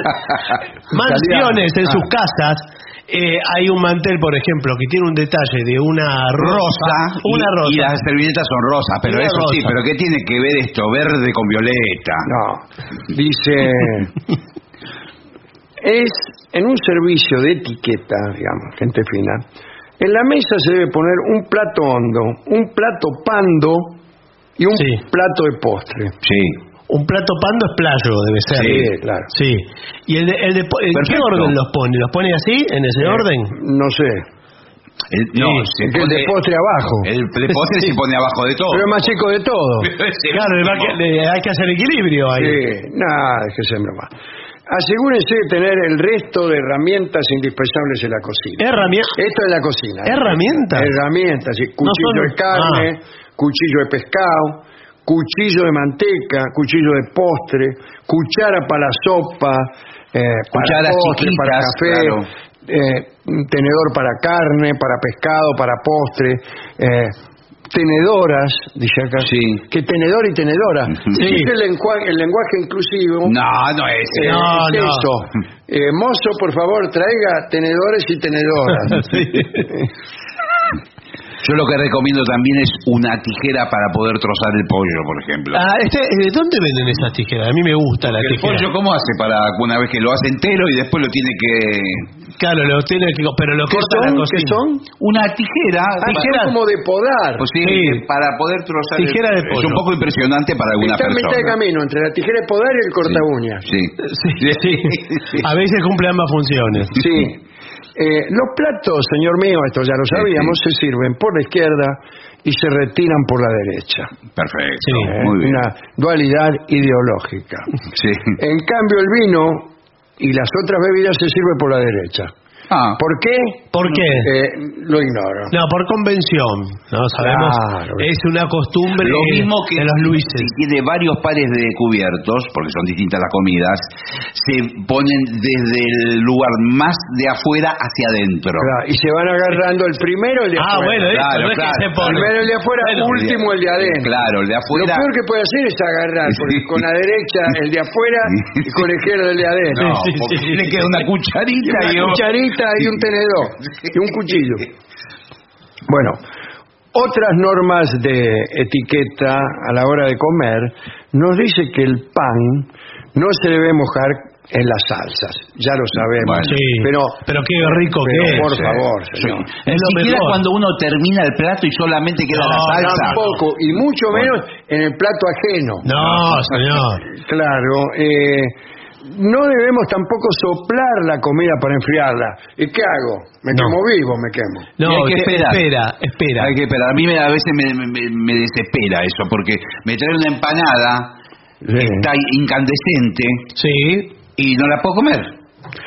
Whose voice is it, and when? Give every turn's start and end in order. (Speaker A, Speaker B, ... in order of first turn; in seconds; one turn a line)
Speaker A: 0.9-7.9
Speaker B: 0.9-1.7
Speaker C: 6.4-12.3
Speaker A: 9.1-9.7
Speaker B: 12.3-14.1
Speaker B: 15.8-19.4
Speaker B: 20.0-24.0
Speaker B: 24.6-26.1
Speaker A: 24.8-25.0
Speaker C: 26.2-26.6
Speaker A: 26.9-33.5
Speaker C: 28.6-28.8
Speaker B: 28.6-29.3
Speaker C: 30.9-31.5
Speaker B: 33.0-34.2
Speaker C: 35.1-36.4
Speaker A: 35.4-35.7
Speaker B: 35.8-37.1
Speaker C: 37.0-39.0
Speaker A: 37.5-37.9
Speaker B: 38.7-39.9
Speaker C: 39.8-41.0
Speaker A: 40.3-42.6
Speaker B: 42.4-44.1
Speaker B: 44.7-48.6
Speaker A: 48.6-49.1
Speaker B: 49.1-67.2
Speaker A: 50.0-50.9
Speaker A: 51.8-52.9
Speaker C: 60.5-62.3
Speaker B: 67.7-73.3
Speaker C: 69.2-69.6
Speaker A: 71.1-71.5
Speaker C: 73.2-74.5
Speaker B: 74.1-79.9
Speaker A: 74.2-75.1
Speaker A: 78.8-79.7
Speaker C: 81.4-85.6
Speaker A: 85.5-88.7
Speaker C: 88.0-92.1
Speaker A: 92.4-94.6
Speaker B: 93.7-94.8
Speaker C: 95.0-96.4
Speaker B: 96.0-97.5
Speaker A: 96.0-96.5
Speaker C: 97.4-101.6
Speaker A: 97.6-98.0
Speaker A: 99.0-99.8
Speaker B: 100.8-103.7
Speaker C: 103.0-105.4
Speaker A: 104.0-107.0
Speaker B: 107.0-107.4
Speaker B: 108.0-114.1
Speaker C: 110.1-110.6
Speaker C: 114.3-115.7
Speaker A: 114.8-115.1
Speaker B: 115.1-117.7
Speaker C: 118.0-118.4
Speaker B: 118.4-122.3
Speaker C: 122.7-123.0
Speaker B: 123.0-123.7
Speaker A: 123.7-124.3
Speaker C: 123.8-124.1
Speaker B: 124.2-125.5
Speaker A: 125.5-130.5
Speaker B: 127.2-128.1
Speaker C: 129.0-138.7
Speaker B: 138.6-141.1
Speaker A: 140.6-143.1
Speaker C: 141.1-142.3
Speaker B: 142.0-144.1
Speaker C: 143.1-145.1
Speaker B: 144.7-150.0
Speaker C: 146.3-146.8
Speaker C: 149.7-152.2
Speaker A: 149.8-150.9
Speaker B: 151.6-154.7
Speaker B: 155.9-156.2
Speaker B: 156.9-169.5
Speaker C: 166.2-166.6
Speaker A: 166.4-168.5
Speaker C: 168.3-173.2
Speaker A: 169.7-170.4
Speaker A: 172.3-173.4
Speaker B: 172.8-175.9
Speaker A: 175.8-177.0
Speaker C: 176.0-176.6
Speaker B: 177.1-184.7
Speaker A: 183.5-183.8
Speaker A: 184.8-186.5
Speaker C: 184.8-185.7
Speaker C: 186.4-191.1
Speaker B: 191.6-192.1
Speaker C: 191.8-193.5
Speaker A: 193.6-194.1
Speaker C: 194.4-195.4